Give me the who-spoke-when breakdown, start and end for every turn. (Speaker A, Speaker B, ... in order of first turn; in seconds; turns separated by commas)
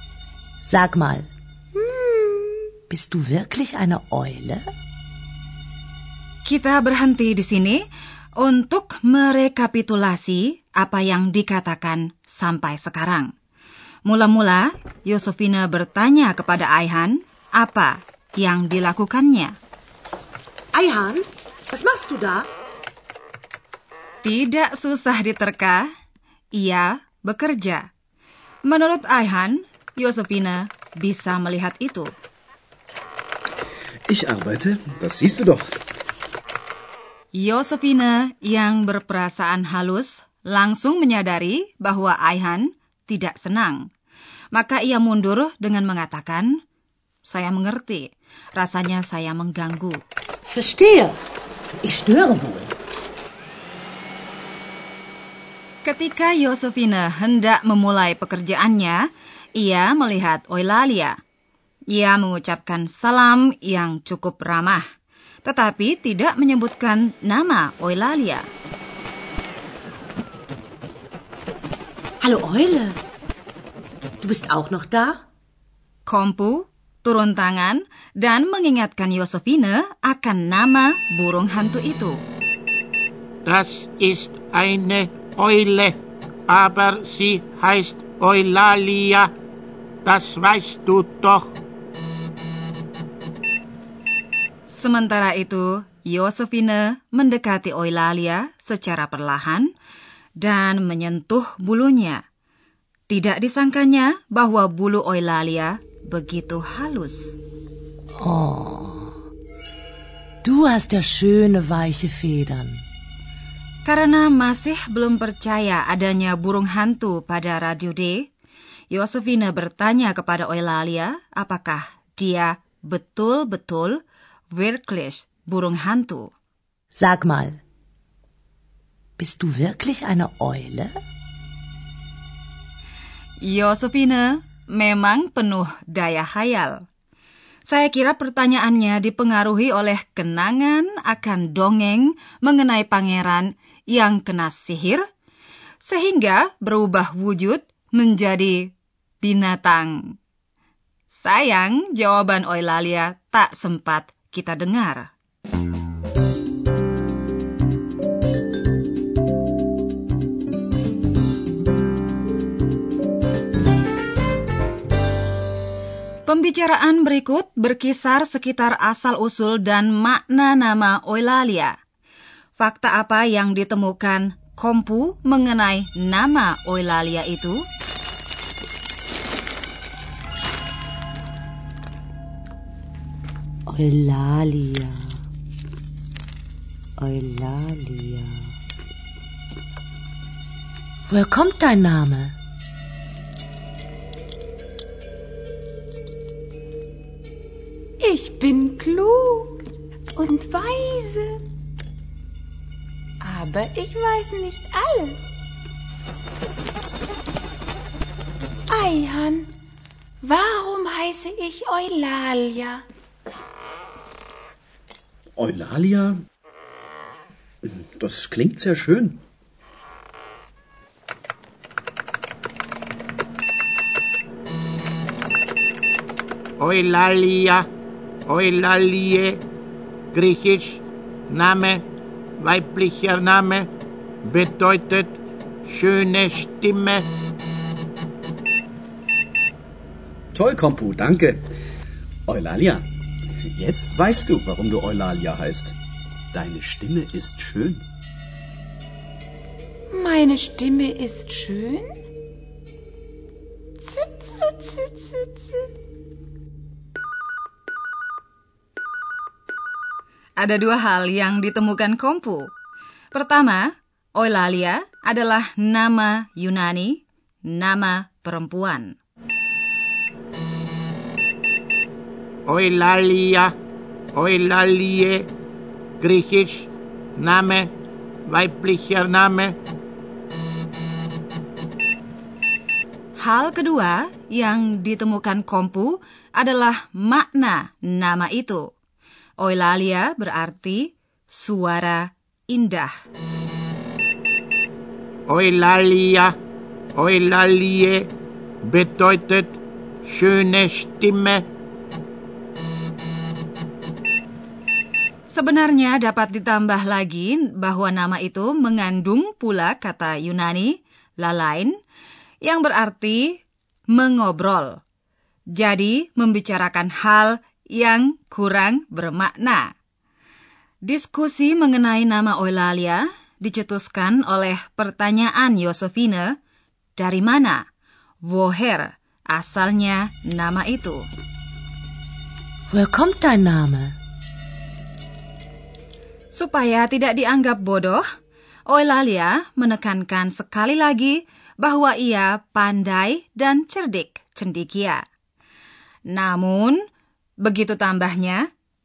Speaker A: 0.7-1.3, Speaker B: 1.8-2.7, Speaker A: 2.9-4.7, Speaker C: 6.5-7.8, Speaker C: 8.4-13.3, Speaker C: 14.1-19.5, Speaker D: 20.7-22.5, Speaker C: 24.2-25.9, Speaker C: 26.6-27.9, Speaker C: 28.7-32.1, Speaker E: 34.1-35.6, Speaker C: 37.4-43.9, Speaker C: 44.5-46.5, Speaker C: 47.2-50.0, Speaker A: 50.5-51.2, Speaker A: 51.8-52.7, Speaker C: 55.9-59.0, Speaker C: 59.6-61.2, Speaker C: 61.9-64.8, Speaker C: 65.5-68.5, Speaker D: 72.2-73.0, Speaker D: 74.2-75.2, Speaker C: 76.1-82.2, Speaker F: 83.5-86.0, Speaker F: 86.5-89.3, Speaker F: 90.0-91.5, Speaker C: 94.7-99.7, Speaker C: 100.4-102.2, Speaker C: 103.1-107.4, Speaker A: 108.2-109.1, Speaker A: 110.4-112.8, Speaker C: 113.9-118.3, Speaker C: 118.9-124.0, Speaker C: 124.5-126.3, Speaker A: 127.0-127.6, Speaker A: 129.2-131.0, Speaker C: 133.4-136.8, Speaker C: 137.7-145.0, Speaker C: 145.8-150.0, Speaker C: 151.1-155.1, Speaker C: 166.3-171.8, Speaker C: 172.6-177.6, Speaker A: 183.7-185.2, Speaker A: 187.0-188.5, Speaker A: 191.1-192.3, Speaker B: 198.0-199.6, Speaker B: 200.1-201.4, Speaker B: 203.2-205.3, Speaker B: 208.7-209.5, Speaker B: 210.2-212.8, Speaker E: 215.4-216.2, Speaker E: 217.7-219.2, Speaker F: 226.6-227.6, Speaker F: 228.3-229.4, Speaker F: 230.1-231.8, Speaker F: 232.4-233.7, Speaker F: 234.2-235.2, Speaker F: 235.7-237.0, Speaker E: 240.3-241.4, Speaker E: 242.3-242.8, Speaker E: 243.5-245.8, Speaker E: 246.3-247.8, Speaker B: 249.9-251.9, Speaker B: 253.8-255.7, Speaker C: 260.4-262.5, Speaker C: 263.1-268.9, Speaker F: 272.5-273.5, Speaker F: 274.2-275.2, Speaker F: 276.0-276.7, Speaker F: 277.2-277.7, Speaker F: 278.3-279.5, Speaker C: 283.2-288.7, Speaker C: 289.4-292.9, Speaker F: 295.3-296.3, Speaker F: 297.0-298.0, Speaker F: 298.7-299.6, Speaker F: 300.1-301.4, Speaker C: 305.3-311.7, Speaker C: 312.4-313.4, Speaker C: 313.9-314.8, Speaker C: 315.6-319.7, Speaker C: 320.9-326.3, Speaker C: 327.0-327.6, Speaker C: 328.3-331.1, Speaker A: 332.7-333.9, Speaker C: 336.3-338.0, Speaker C: 338.7-345.0, Speaker C: 346.1-346.8, Speaker C: 347.4-348.4